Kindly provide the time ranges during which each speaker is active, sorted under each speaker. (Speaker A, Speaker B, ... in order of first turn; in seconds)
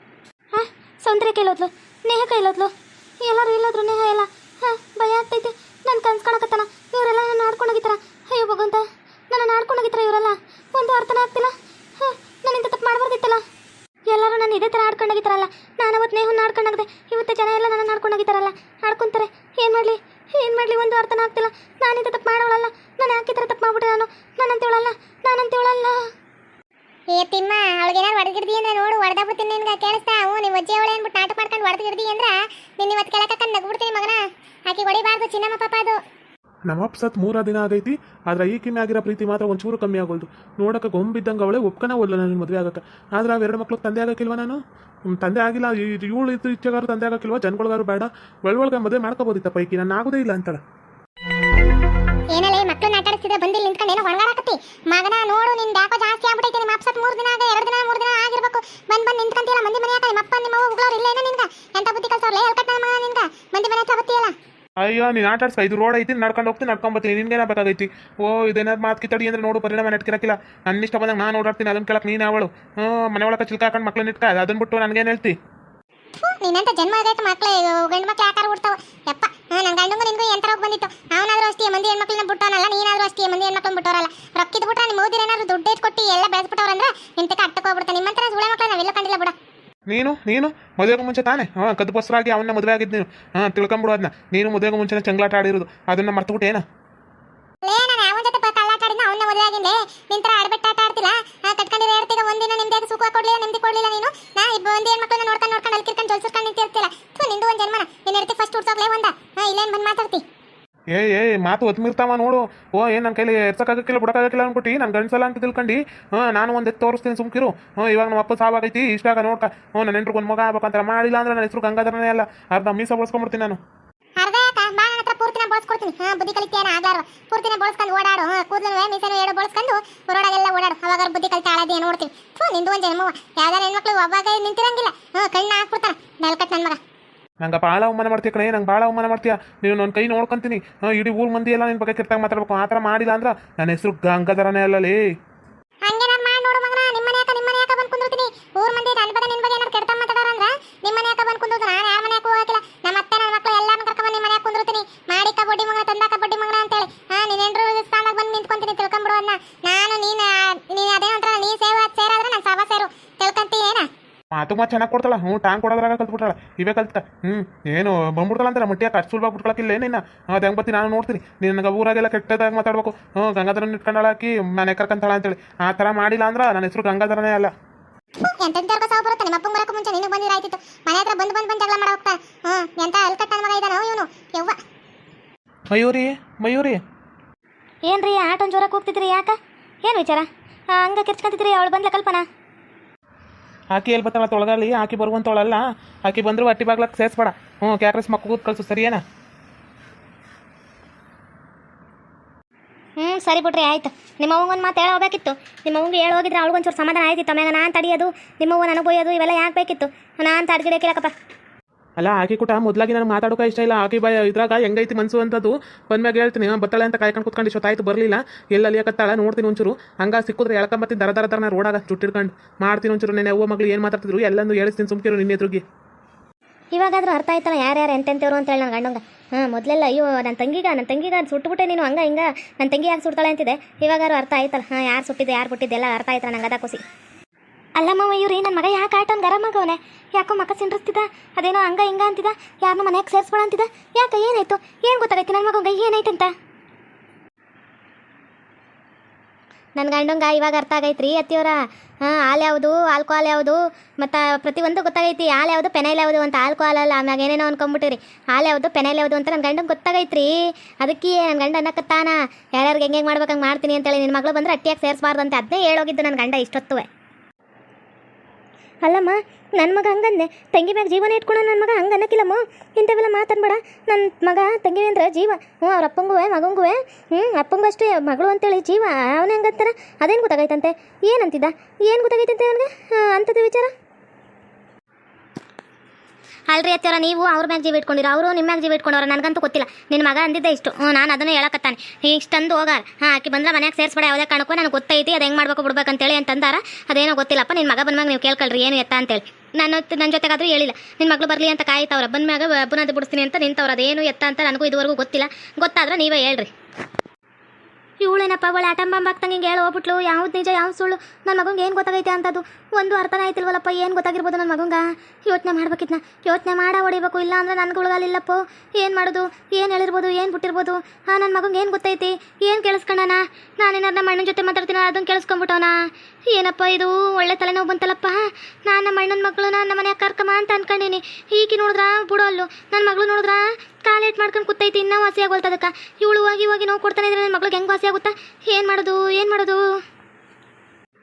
Speaker A: 0.5-13.4, 14.1-26.0, 187.8-192.2, 203.0-211.1, 226.7-236.8, 237.8-246.3, 249.8-266.9, 268.8-283.7, 286.5-306.5, 308.0-325.8, 326.3-339.6
Speaker B: 27.1-36.0, 52.3-64.3, 76.2-89.3, 97.6-110.2, 124.2-136.8, 145.8-163.9, 178.2-184.6
Speaker C: 36.7-50.6, 64.8-75.3, 89.9-96.6, 110.9-123.6, 137.4-145.0, 164.3-177.5, 185.7-186.8, 193.7-199.0, 212.0-225.6